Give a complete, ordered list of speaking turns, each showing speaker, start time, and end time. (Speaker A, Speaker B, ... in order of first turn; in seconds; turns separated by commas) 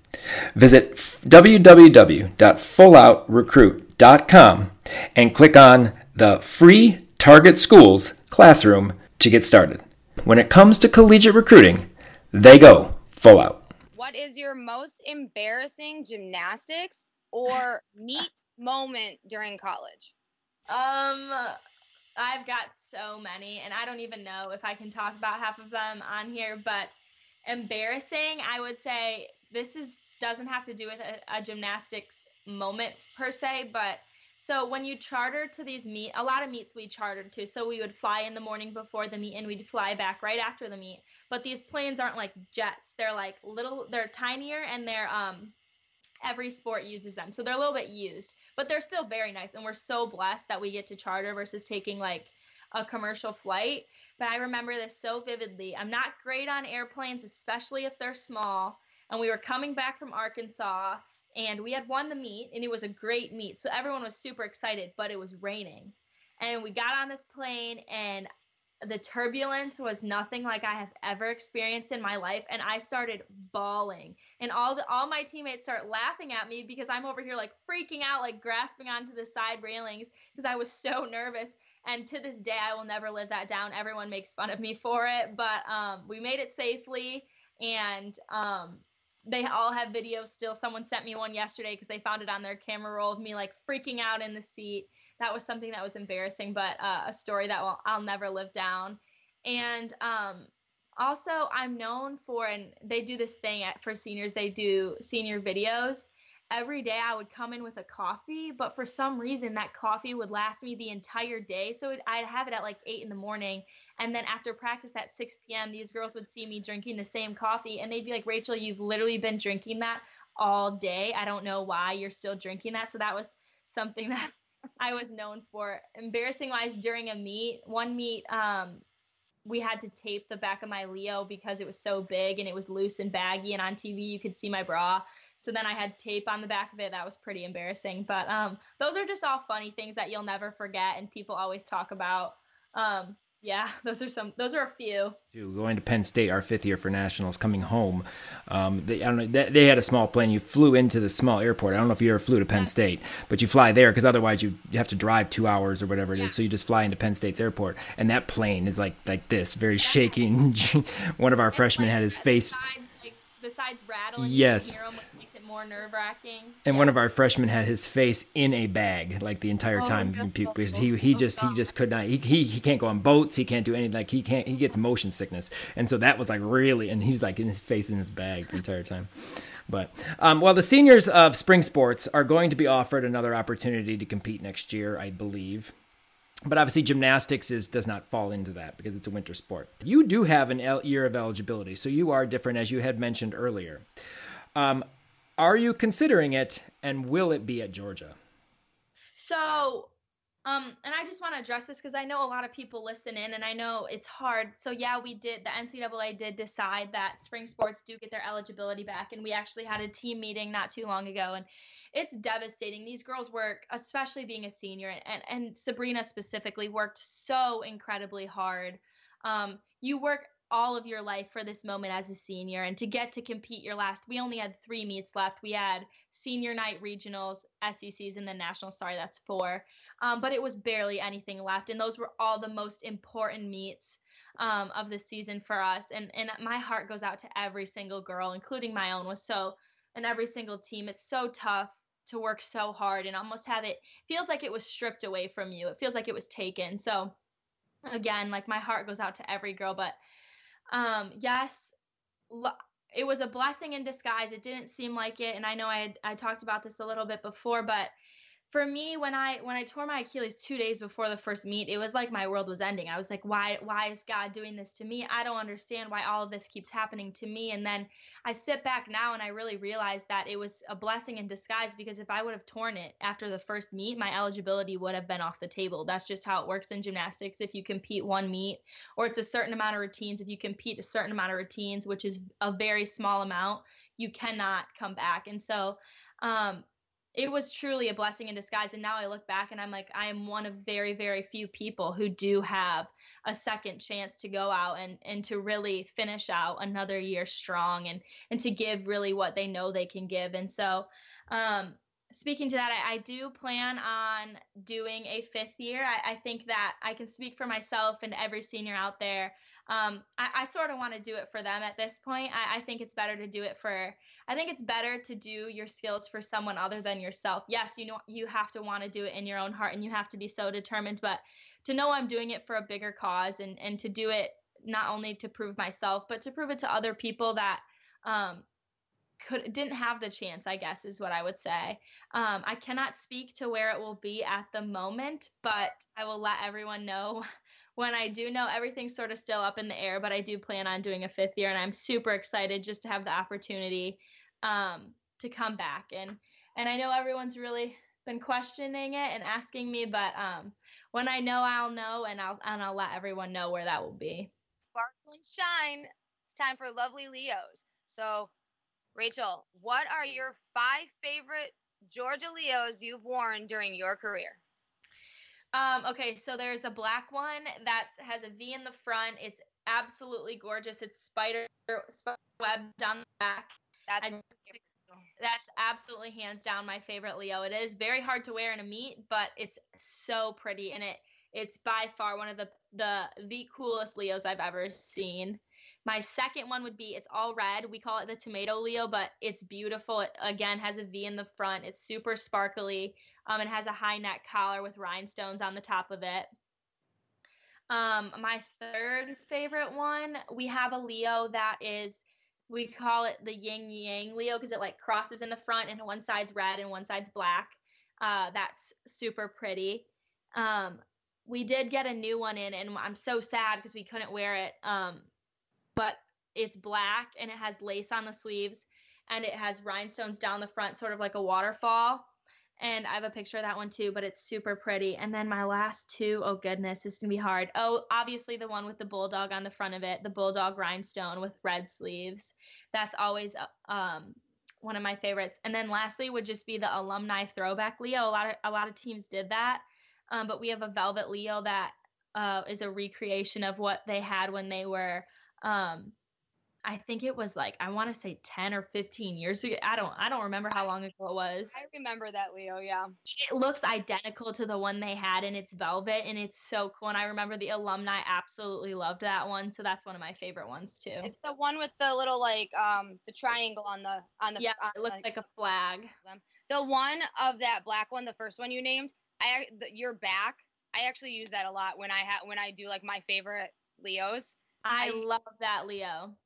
Speaker A: 0.5-13.6, Speaker B: 13.9-20.1, Speaker C: 20.7-21.6, Speaker C: 22.2-26.9, Speaker C: 27.4-45.5, Speaker C: 46.2-68.3, Speaker C: 68.8-128.8, Speaker C: 129.4-145.2, Speaker A: 145.3-162.6, Speaker C: 159.8-160.2, Speaker C: 161.5-167.0, Speaker A: 164.2-164.8, Speaker A: 166.7-185.7, Speaker C: 169.8-171.6, Speaker A: 186.5-193.9, Speaker A: 194.5-194.8, Speaker A: 195.4-198.2, Speaker C: 199.2-199.9, Speaker C: 200.4-247.1, Speaker C: 247.8-249.9, Speaker C: 250.7-251.7, Speaker C: 252.3-257.9, Speaker C: 258.5-328.4, Speaker C: 329.2-337.2, Speaker C: 337.8-354.3, Speaker B: 354.7-358.3, Speaker B: 358.9-364.4, Speaker C: 365.5-374.5, Speaker B: 373.9-375.0, Speaker C: 375.2-396.3, Speaker C: 397.7-415.1, Speaker C: 415.8-422.1, Speaker C: 422.6-445.9, Speaker C: 446.6-451.6, Speaker B: 451.5-452.9, Speaker C: 453.1-461.1, Speaker B: 461.0-465.0, Speaker C: 464.4-465.9, Speaker B: 466.0-475.0, Speaker C: 474.6-476.1